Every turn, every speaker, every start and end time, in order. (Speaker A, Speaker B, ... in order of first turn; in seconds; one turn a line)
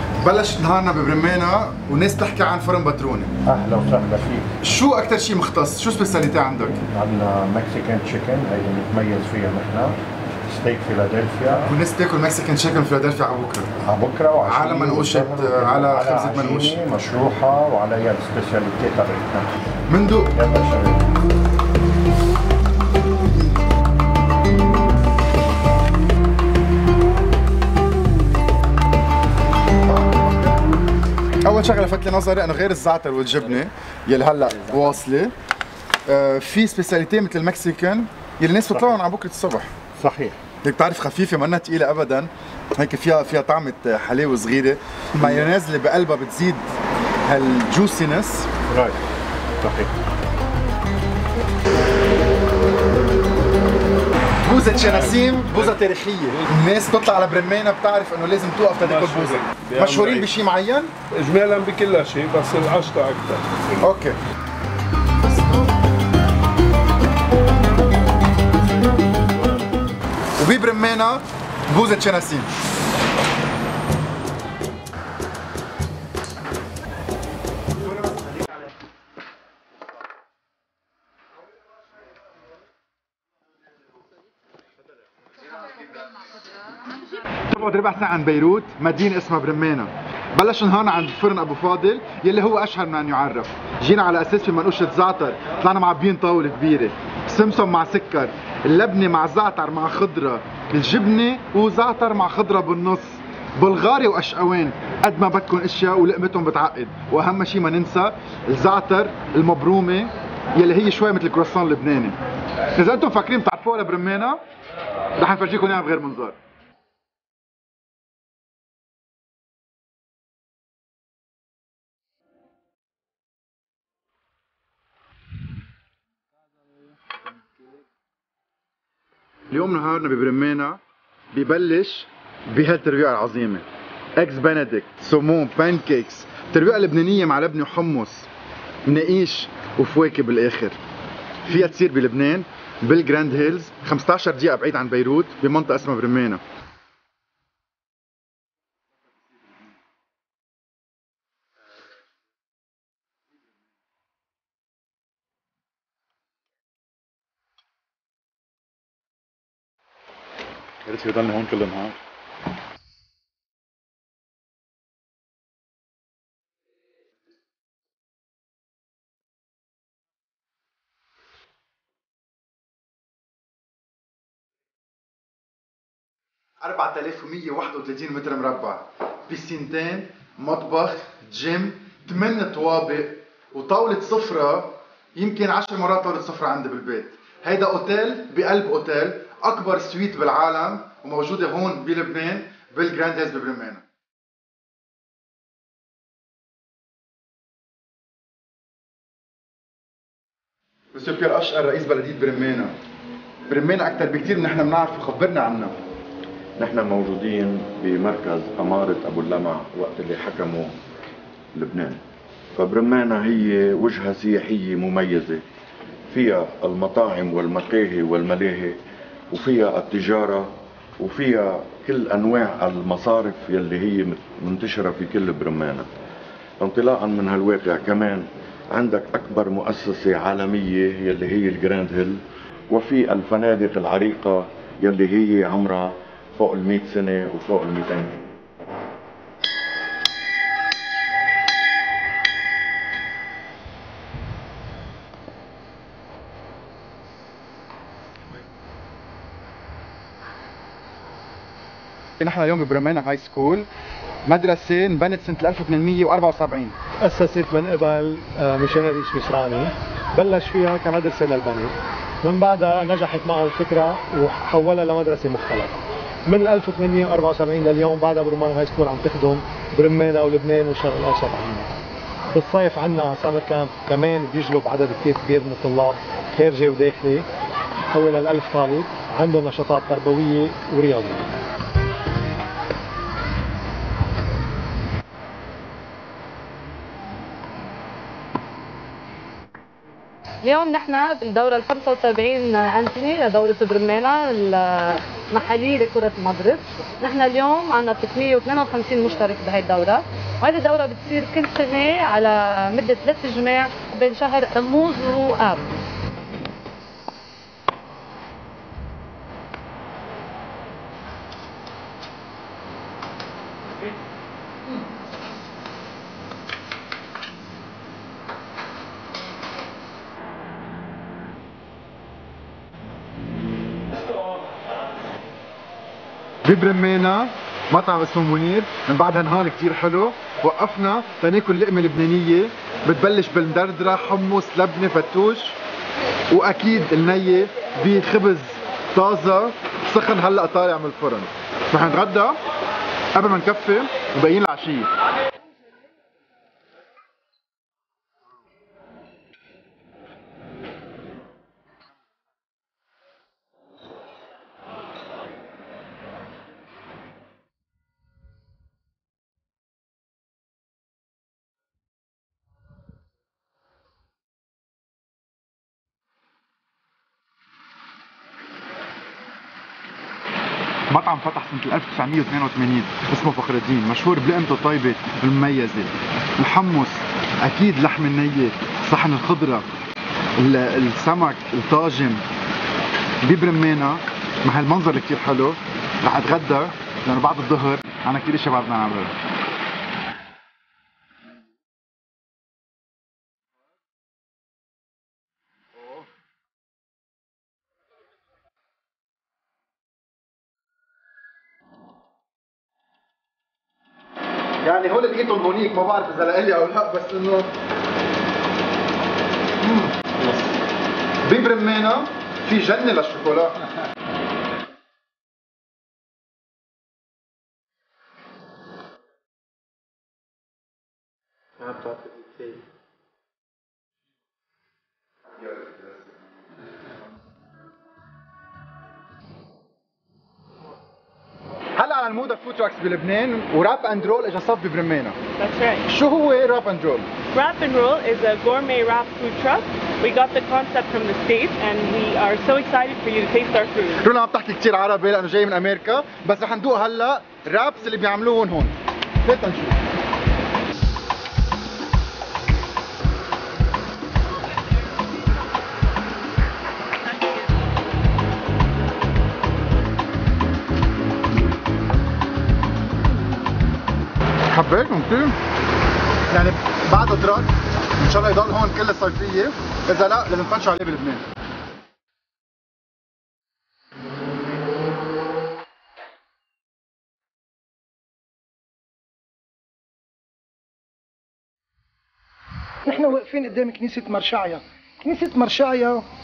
Speaker A: 0.2-3.3
Speaker B: 3.5-4.5
Speaker A: 4.6-6.8
Speaker B: 6.9-10.0
Speaker B: 10.5-11.7
Speaker A: 11.7-13.7
Speaker B: 13.8-19.5
Speaker A: 14.4-16.7
Speaker A: 19.9-20.3
Speaker B: 20.3-21.0
Speaker A: 31.4-35.3
Speaker A: 36.1-39.7
Speaker B: 38.7-39.0
Speaker B: 40.0-40.4
Speaker A: 40.6-46.6
Speaker A: 47.3-48.5
Speaker B: 48.7-49.0
Speaker B: 49.6-49.9
Speaker A: 54.4-60.9
Speaker C: 54.6-56.7
Speaker C: 58.8-60.3
Speaker C: 61.1-63.9
Speaker A: 63.8-64.2
Speaker A: 70.4-72.5
Speaker A: 87.5-112.2
Speaker A: 112.8-114.4
Speaker A: 115.2-116.4
Speaker A: 129.5-130.8
Speaker A: 131.3-133.6
Speaker A: 134.2-138.3
Speaker A: 138.8-140.8
Speaker A: 141.5-146.4
Speaker A: 160.8-162.0
Speaker A: 176.6-193.8
Speaker A: 200.9-202.8
Speaker A: 203.5-205.8
Speaker D: 206.6-210.7
Speaker D: 211.5-212.0
Speaker D: 212.6-215.4
Speaker D: 216.1-218.8
Speaker D: 219.3-220.5
Speaker D: 221.0-225.9
Speaker D: 226.6-232.2
Speaker D: 232.7-238.2
Speaker A: 252.2-253.7
Speaker A: 254.2-256.7
Speaker E: 257.0-265.7
Speaker E: 266.2-271.7
Speaker E: 272.3-277.3
Speaker E: 277.9-281.2
Speaker F: 290.4-305.6
Speaker A: 326.4-335.6
Speaker A: 336.3-342.4
Speaker A: 343.1-344.9
Speaker A: 370.9-379.6
Speaker A: 380.4-382.2
Speaker A: 383.2-389.1
Speaker A: 404.6-407.5
Speaker A: 409.6-410.5
Speaker A: 411.2-413.5
Speaker A: 431.8-435.2
Speaker G: 435.4-435.8
Speaker A: 435.9-437.1
Speaker G: 437.4-443.9
Speaker A: 444.0-449.8
Speaker A: 464.5-465.4
Speaker A: 466.3-471.2
Speaker H: 482.8-486.0